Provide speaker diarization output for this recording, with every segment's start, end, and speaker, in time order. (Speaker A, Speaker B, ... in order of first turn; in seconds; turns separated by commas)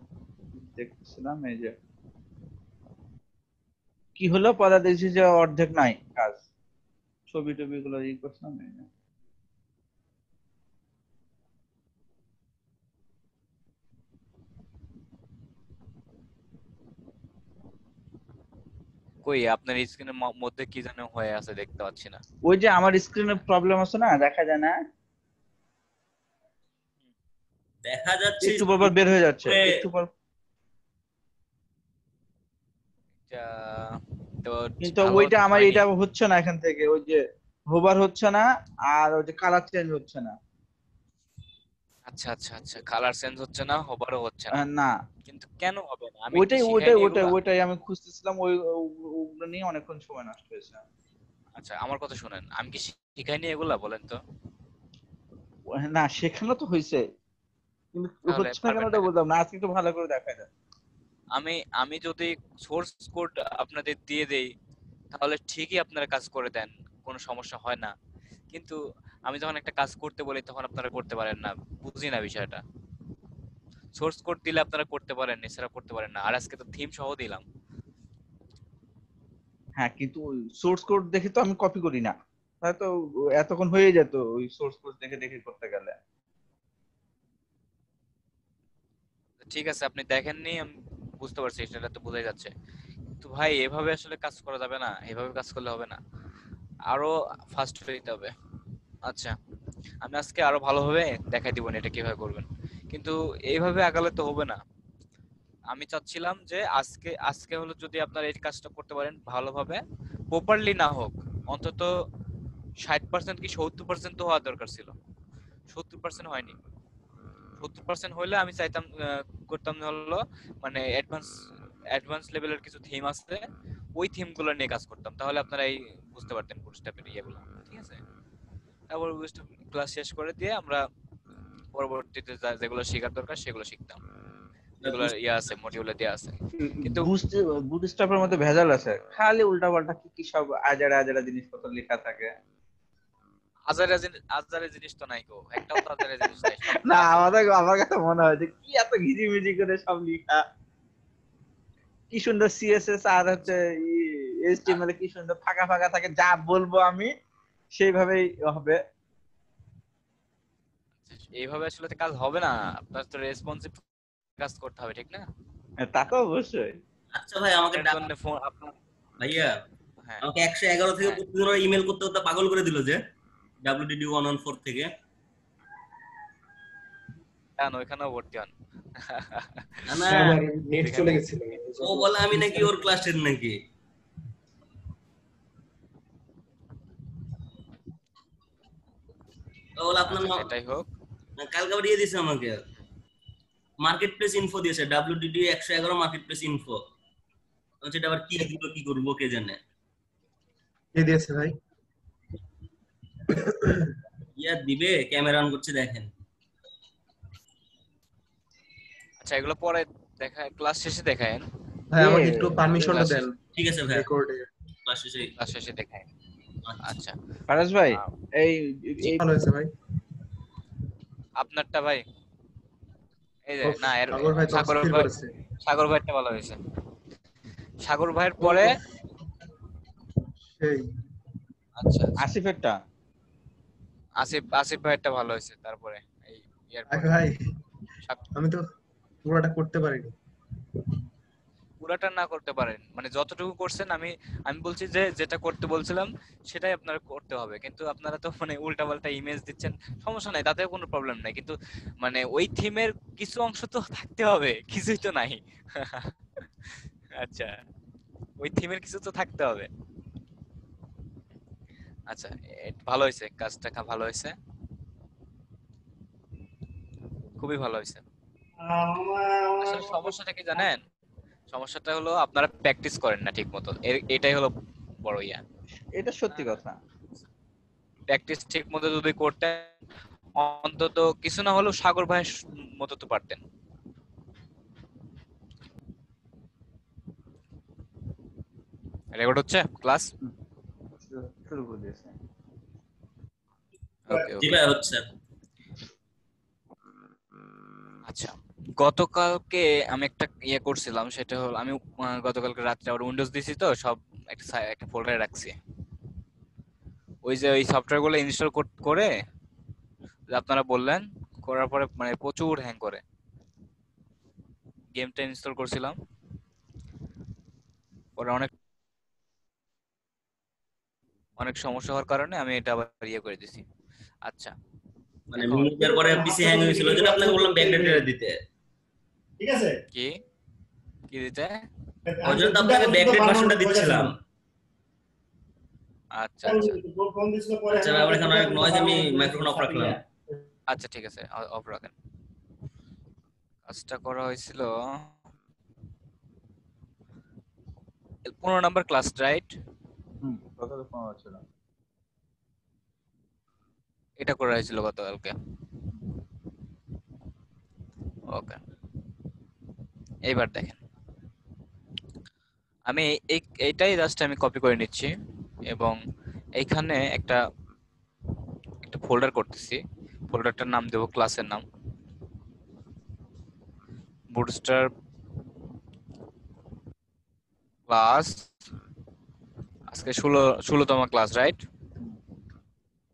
Speaker A: 0.6-1.7, Speaker A: 4.2-6.5, Speaker A: 7.3-8.9, Speaker B: 19.2-22.2, Speaker A: 22.5-24.8, Speaker C: 27.8-29.7, Speaker A: 28.4-30.1, Speaker B: 33.3-35.9, Speaker A: 34.8-40.4, Speaker B: 42.1-44.6, Speaker A: 44.6-45.0, Speaker B: 45.3-47.3, Speaker A: 46.3-50.8, Speaker B: 51.6-54.2, Speaker A: 55.8-57.0, Speaker A: 57.9-60.5, Speaker B: 58.3-59.1, Speaker B: 61.3-64.5, Speaker B: 65.1-67.9, Speaker B: 68.5-72.6, Speaker B: 73.9-77.4, Speaker A: 79.8-86.0, Speaker B: 89.4-92.5, Speaker B: 93.2-96.0, Speaker B: 96.9-98.3, Speaker B: 99.1-99.3, Speaker B: 100.0-104.6, Speaker B: 105.7-111.9, Speaker B: 112.8-114.9, Speaker B: 115.7-116.6, Speaker B: 117.6-128.0, Speaker B: 128.9-130.8, Speaker B: 131.7-134.0, Speaker B: 134.8-137.1, Speaker A: 136.8-142.3, Speaker B: 143.7-147.3, Speaker A: 146.4-150.4, Speaker A: 152.1-157.1, Speaker A: 157.8-158.8, Speaker B: 161.1-163.8, Speaker B: 164.4-165.2, Speaker A: 165.8-166.8, Speaker C: 167.1-168.0, Speaker B: 167.7-168.8, Speaker C: 169.2-169.6, Speaker C: 170.2-173.0, Speaker C: 173.6-174.9, Speaker B: 177.6-180.2, Speaker C: 179.9-180.4, Speaker D: 180.0-182.8, Speaker B: 180.8-181.3, Speaker C: 181.8-183.6, Speaker C: 189.8-190.5, Speaker B: 190.1-190.9, Speaker C: 191.4-192.6, Speaker C: 193.8-196.8, Speaker C: 197.8-199.6, Speaker D: 200.9-201.6, Speaker D: 203.3-203.9, Speaker C: 204.4-206.1, Speaker B: 209.2-211.4, Speaker D: 211.9-213.4, Speaker A: 212.0-213.1, Speaker B: 212.8-213.3, Speaker C: 213.6-214.1, Speaker D: 213.9-214.5, Speaker C: 214.9-215.3, Speaker B: 215.4-216.1, Speaker C: 216.7-216.9, Speaker B: 216.8-217.2, Speaker A: 217.5-219.2, Speaker D: 219.1-219.7, Speaker B: 221.4-222.0, Speaker B: 223.4-226.6, Speaker D: 223.6-225.3, Speaker B: 227.8-228.8, Speaker D: 230.4-230.9, Speaker B: 231.8-232.2, Speaker A: 232.2-232.8, Speaker B: 234.2-237.2, Speaker D: 236.9-237.6, Speaker D: 238.3-238.6, Speaker D: 239.2-240.1, Speaker B: 241.8-257.6, Speaker B: 258.4-259.7, Speaker B: 262.1-264.4, Speaker B: 267.4-268.0, Speaker E: 268.6-270.1, Speaker B: 269.6-270.8, Speaker B: 271.5-275.4, Speaker A: 275.9-276.8, Speaker B: 276.3-276.6, Speaker B: 278.1-279.7, Speaker B: 280.4-283.4, Speaker B: 289.1-290.1, Speaker A: 291.0-292.2, Speaker B: 294.1-294.6, Speaker C: 294.1-295.1, Speaker B: 298.1-305.6, Speaker B: 307.2-309.1, Speaker B: 310.3-313.0, Speaker B: 314.9-316.0, Speaker B: 318.2-318.5, Speaker B: 321.4-323.6, Speaker B: 324.2-324.5, Speaker C: 325.3-328.4, Speaker B: 325.4-325.7, Speaker E: 325.8-328.0, Speaker E: 329.4-329.8, Speaker B: 331.1-331.6, Speaker E: 332.1-334.1, Speaker C: 332.2-334.2, Speaker B: 336.1-336.8, Speaker E: 336.4-340.0, Speaker C: 337.7-340.0, Speaker B: 340.7-341.9, Speaker B: 343.7-345.1, Speaker B: 348.3-349.6, Speaker A: 350.2-351.4, Speaker B: 354.2-355.3, Speaker B: 358.3-358.6, Speaker B: 360.3-360.8, Speaker B: 362.9-365.1, Speaker B: 365.7-366.0, Speaker B: 366.6-367.4, Speaker B: 368.8-371.6, Speaker B: 374.3-374.9, Speaker B: 377.9-378.5, Speaker B: 379.9-381.6